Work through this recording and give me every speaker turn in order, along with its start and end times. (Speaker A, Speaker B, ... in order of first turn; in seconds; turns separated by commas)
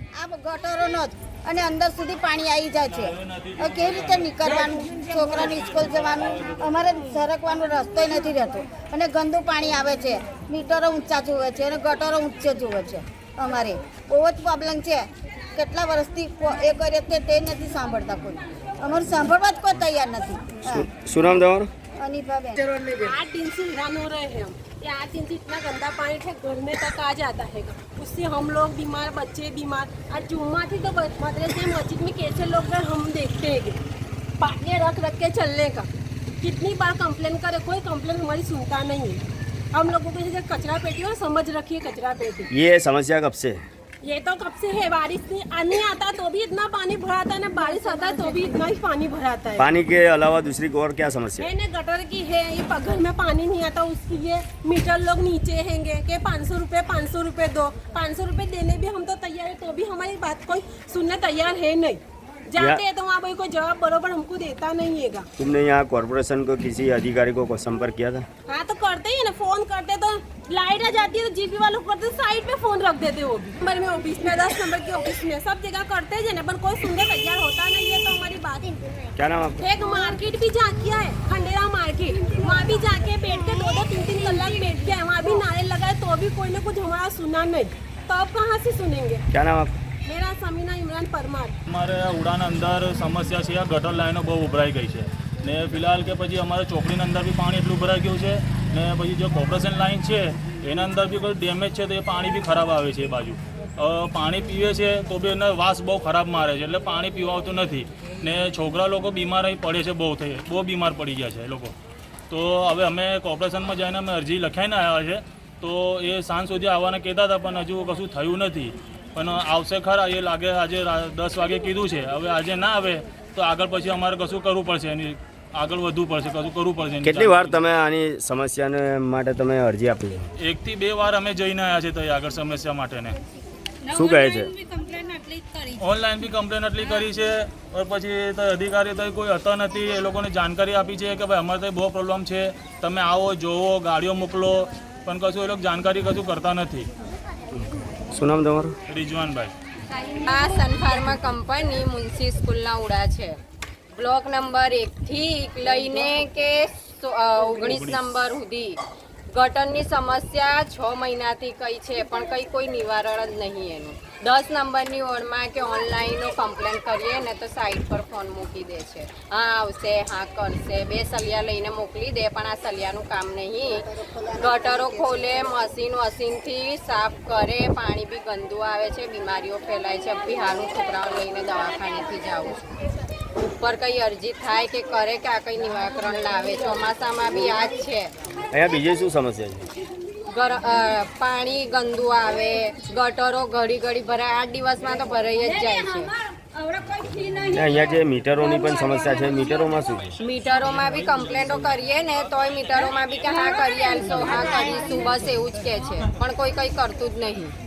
Speaker A: 0.1-20.9, Speaker B: 3.4-4.2, Speaker C: 20.7-21.7, Speaker A: 22.0-22.7, Speaker D: 22.8-33.8, Speaker D: 34.4-35.9, Speaker D: 36.4-42.5, Speaker C: 42.5-43.6, Speaker D: 44.0-49.7, Speaker C: 49.6-51.5, Speaker D: 51.4-65.3, Speaker C: 62.5-62.8, Speaker C: 65.4-68.2, Speaker D: 68.5-78.8, Speaker C: 79.2-79.7, Speaker D: 79.6-89.2, Speaker C: 89.3-89.8, Speaker D: 90.0-91.5, Speaker B: 91.7-111.7, Speaker B: 112.3-127.6, Speaker C: 127.0-130.3, Speaker B: 130.4-133.2, Speaker C: 133.9-134.6, Speaker B: 135.7-146.9, Speaker C: 147.5-148.7, Speaker B: 148.9-149.5, Speaker E: 150.0-153.4, Speaker E: 153.9-158.8, Speaker B: 157.6-158.0, Speaker E: 159.3-182.8, Speaker E: 183.3-188.1, Speaker C: 188.5-189.7, Speaker E: 190.3-196.2, Speaker C: 197.3-200.1, Speaker E: 200.2-207.5